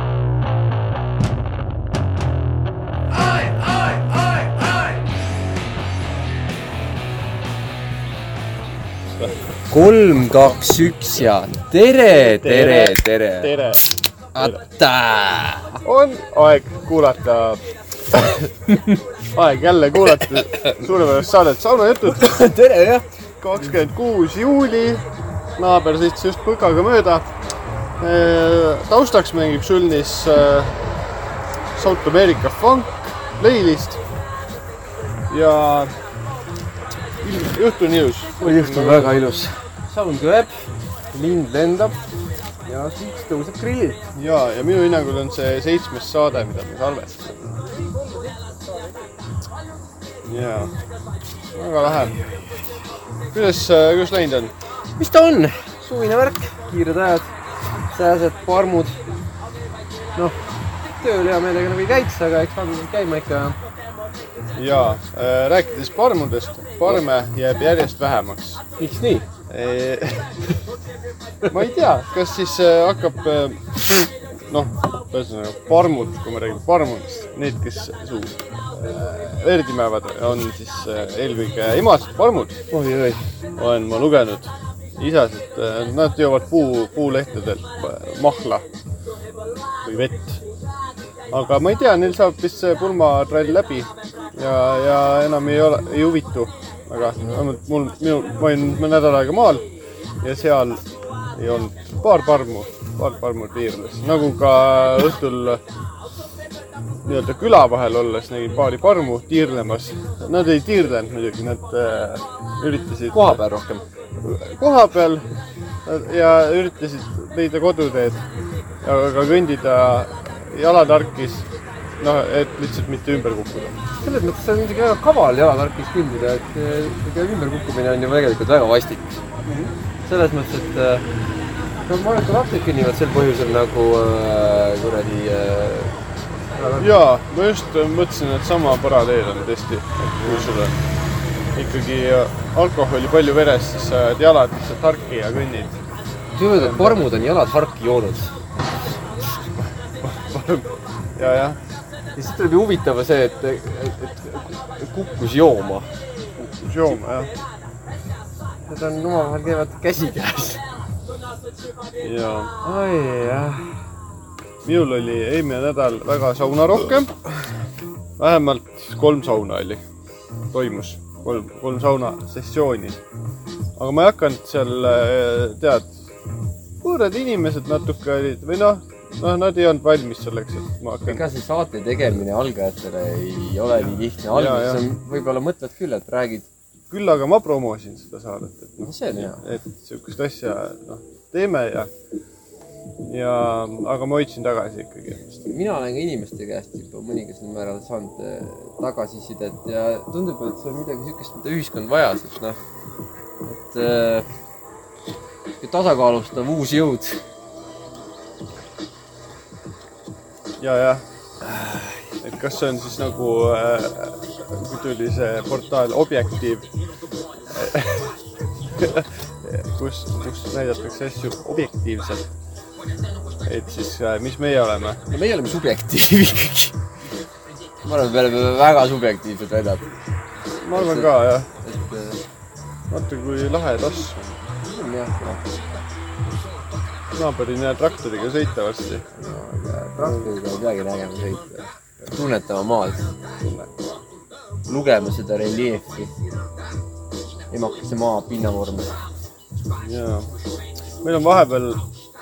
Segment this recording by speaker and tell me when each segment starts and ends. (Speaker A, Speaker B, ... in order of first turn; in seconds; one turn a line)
Speaker A: 3.2-4.9
Speaker A: 9.7-13.5
Speaker B: 12.2-13.9
Speaker A: 14.3-15.8
Speaker B: 15.8-17.6
Speaker A: 18.7-19.0
Speaker B: 19.3-22.3
Speaker A: 20.2-20.8
Speaker A: 22.1-23.1
Speaker B: 23.4-25.0
Speaker B: 25.6-27.3
Speaker B: 28.0-30.8
Speaker B: 31.8-34.0
Speaker B: 35.3-35.9
Speaker B: 37.2-39.2
Speaker A: 38.4-42.0
Speaker A: 42.6-44.0
Speaker B: 44.1-47.6
Speaker B: 50.3-50.7
Speaker B: 51.5-52.2
Speaker A: 52.0-52.3
Speaker B: 53.3-54.5
Speaker A: 55.0-57.3
Speaker A: 57.9-59.0
Speaker A: 60.9-63.6
Speaker B: 64.6-68.6
Speaker A: 68.8-69.3
Speaker B: 69.5-70.4
Speaker B: 71.5-82.6
Speaker A: 82.7-83.2
Speaker B: 83.6-88.6
Speaker B: 89.8-90.4
Speaker B: 91.3-99.7
Speaker B: 100.2-100.8
Speaker B: 101.4-105.6
Speaker B: 107.0-113.4
Speaker A: 113.1-113.8
Speaker B: 114.2-115.3
Speaker B: 115.8-118.2
Speaker B: 118.8-121.5
Speaker B: 122.0-123.8
Speaker A: 124.0-129.2
Speaker B: 129.4-129.7
Speaker A: 130.1-131.1
Speaker A: 131.8-135.9
Speaker A: 136.5-136.9
Speaker B: 136.8-140.8
Speaker A: 140.1-140.5
Speaker B: 141.6-145.8
Speaker A: 146.3-148.3
Speaker B: 146.5-147.1
Speaker B: 149.8-151.6
Speaker A: 152.2-155.9
Speaker B: 156.4-157.3
Speaker A: 158.7-160.6
Speaker B: 162.0-162.5
Speaker A: 162.6-163.8
Speaker B: 164.6-167.2
Speaker B: 168.2-169.8
Speaker B: 170.5-173.0
Speaker B: 173.8-175.9
Speaker B: 176.8-181.2
Speaker A: 181.1-186.5
Speaker B: 184.3-184.9
Speaker B: 186.9-191.9
Speaker A: 188.8-189.4
Speaker B: 193.0-195.5
Speaker A: 195.5-202.6
Speaker A: 203.4-204.3
Speaker A: 205.6-207.2
Speaker B: 210.6-211.0
Speaker A: 211.4-212.0
Speaker B: 212.2-216.7
Speaker B: 217.5-218.1
Speaker B: 218.7-222.3
Speaker B: 223.4-225.0
Speaker A: 225.1-226.8
Speaker A: 227.8-230.0
Speaker B: 230.6-231.5
Speaker A: 230.8-232.2
Speaker B: 232.9-234.2
Speaker A: 234.6-235.5
Speaker B: 237.1-239.1
Speaker A: 239.1-243.1
Speaker B: 240.0-240.3
Speaker B: 243.4-243.9
Speaker A: 244.7-246.1
Speaker A: 247.5-249.0
Speaker B: 249.8-250.3
Speaker B: 251.0-251.8